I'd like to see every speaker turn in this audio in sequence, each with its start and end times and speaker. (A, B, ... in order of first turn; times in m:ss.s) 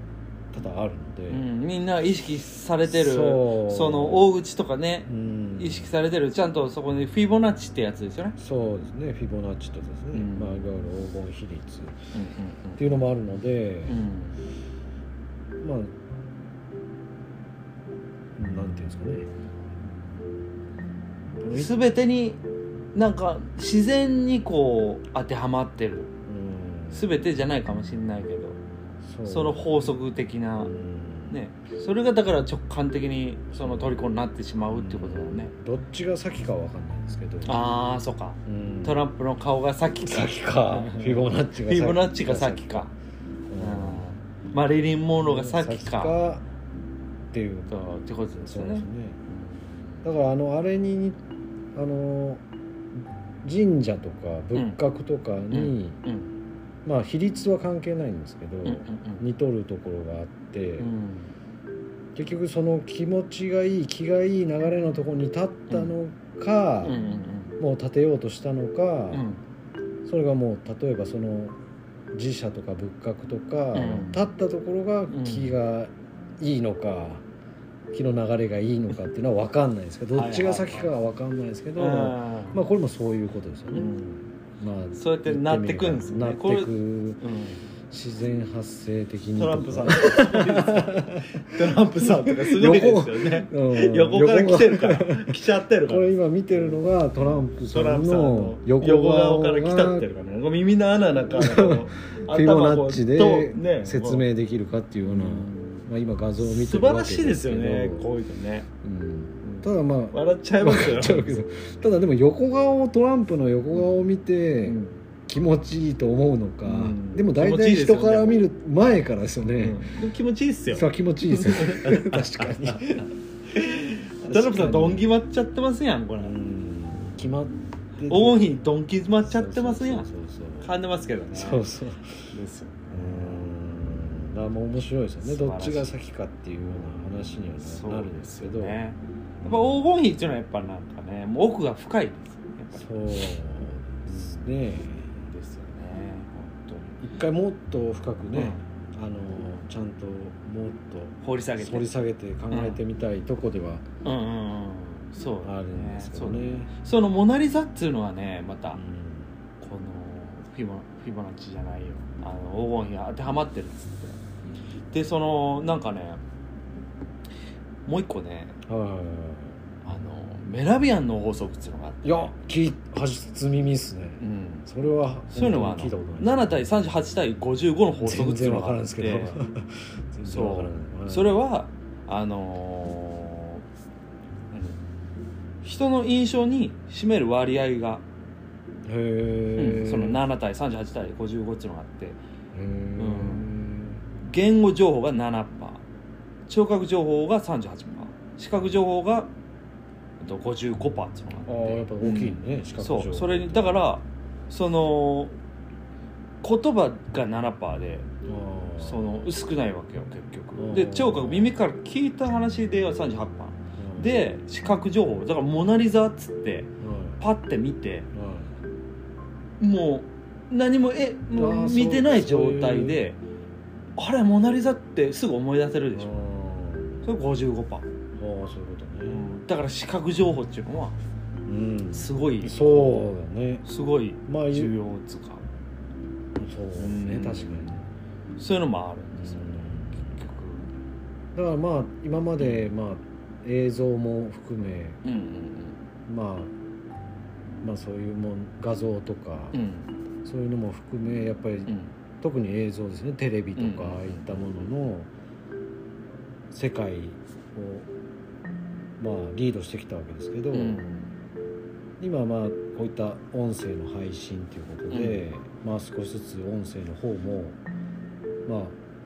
0:00.5-0:01.5 A
0:01.3-0:08.4 B
0:02.8-0:04.3 A
0:05.1-0:05.9 A
0:08.4-0:12.0 A
0:10.1-0:10.6 B
0:12.1-0:12.9 B
0:12.8-0:14.0 A
0:13.9-0:14.4 B
0:15.6-0:15.9 A
0:18.4-0:19.3 A
0:21.4-0:21.7 A
0:21.5-0:22.4 B
0:22.9-0:26.1 B
0:26.2-0:27.2 A
0:26.9-0:28.6 B
0:29.0-0:29.9 A
0:29.2-0:30.7 B
0:30.6-0:31.4 A
0:31.3-0:35.5 B
0:33.5-0:34.1 A
0:34.6-0:37.6 A
0:37.4-0:42.9 B
0:38.4-0:39.0 A
0:40.0-0:42.9 A
0:43.5-0:44.1 A
0:43.6-0:46.2 B
0:45.2-0:46.4 A
0:47.3-0:47.8 A
0:47.7-0:50.0 B
0:48.4-0:49.2 A
0:50.0-0:51.2 A
0:51.7-0:52.4 A
0:53.4-0:56.0 A
0:54.5-0:54.8 B
0:55.5-0:56.3 B
0:56.8-1:00.9 A
0:58.6-0:59.2 B
1:00.8-1:01.3 B
1:02.1-1:07.0 A
1:06.8-1:07.6 B
1:07.6-1:09.3 A
1:09.1-1:09.4 B
1:10.0-1:11.6 A
1:12.1-1:17.2 A
1:13.7-1:14.2 B
1:15.1-1:15.5 B
1:17.9-1:23.9 A
1:20.1-1:20.9 B
1:21.8-1:22.6 B
1:23.7-1:24.3 B
1:24.6-1:27.2 A
1:25.0-1:27.6 B
1:27.9-1:35.3 A
1:29.4-1:44.2 B
1:35.8-1:40.1 A
1:41.3-1:48.1 A
1:45.0-1:48.7 B
1:48.8-1:59.8 A
1:49.4-1:51.5 B
1:53.7-1:54.0 B
1:54.6-1:54.9 B
1:56.6-1:58.4 B
1:59.6-2:06.3 B
2:00.7-2:03.0 A
2:04.2-2:05.1 A
2:06.2-2:08.5 A
2:08.1-2:10.1 B
2:09.2-2:10.7 A
2:10.6-2:11.6 B
2:11.3-2:12.3 A
2:12.3-2:13.4 B
2:12.9-2:18.8 A
2:15.2-2:15.9 B
2:17.6-2:23.3 B
2:19.4-2:19.8 A
2:22.7-2:25.3 A
2:24.1-2:27.0 B
2:27.0-2:33.8 A
2:28.3-2:28.6 B
2:31.2-2:31.9 B
2:32.5-2:32.8 B
2:34.0-2:38.8 B
2:35.4-2:36.7 A
2:38.7-2:39.4 A
2:39.6-2:44.2 B
2:44.9-2:46.2 B
2:47.8-2:48.6 B
2:48.7-2:49.6 A
2:49.8-2:52.3 B
2:52.0-2:56.5 A
2:54.2-2:54.7 B
2:55.3-2:59.4 B
2:58.0-3:01.4 A
3:00.2-3:03.6 B
3:04.5-3:04.8 B
3:05.6-3:08.0 B
3:08.8-3:10.2 A
3:09.6-3:12.2 B
3:12.5-3:14.0 A
3:13.0-3:13.5 B
3:14.2-3:15.8 B
3:16.5-3:19.3 B
3:20.2-3:25.3 B
3:21.4-3:23.9 A
3:26.4-3:28.1 B
3:28.2-3:29.3 A
3:28.8-3:38.1 B
3:30.6-3:31.6 A
3:33.8-3:34.2 A
3:36.8-3:37.3 A
3:38.1-3:38.6 A
3:39.6-3:43.2 B
3:41.3-3:43.0 A
3:44.0-3:46.1 B
3:45.9-3:47.1 A
3:47.0-3:47.9 B
3:48.2-3:49.3 A
3:49.0-3:51.0 B
3:51.4-3:53.6 A
3:51.9-3:55.4 B
3:54.2-3:54.7 A
3:56.4-3:57.9 A
3:56.8-3:57.7 B
3:58.4-4:00.7 B
3:59.1-4:00.2 A
4:01.3-4:05.0 A
4:02.4-4:02.7 B
4:05.0-4:05.8 B
4:06.1-4:06.5 A
4:07.6-4:09.6 A
4:09.5-4:09.9 B
4:10.2-4:15.1 A
4:11.7-4:11.9 B
4:13.6-4:14.4 B
4:16.5-4:17.9 A
4:19.0-4:20.8 A
4:20.5-4:21.1 B
4:22.0-4:27.6 A
4:24.9-4:25.2 B
4:28.4-4:28.8 A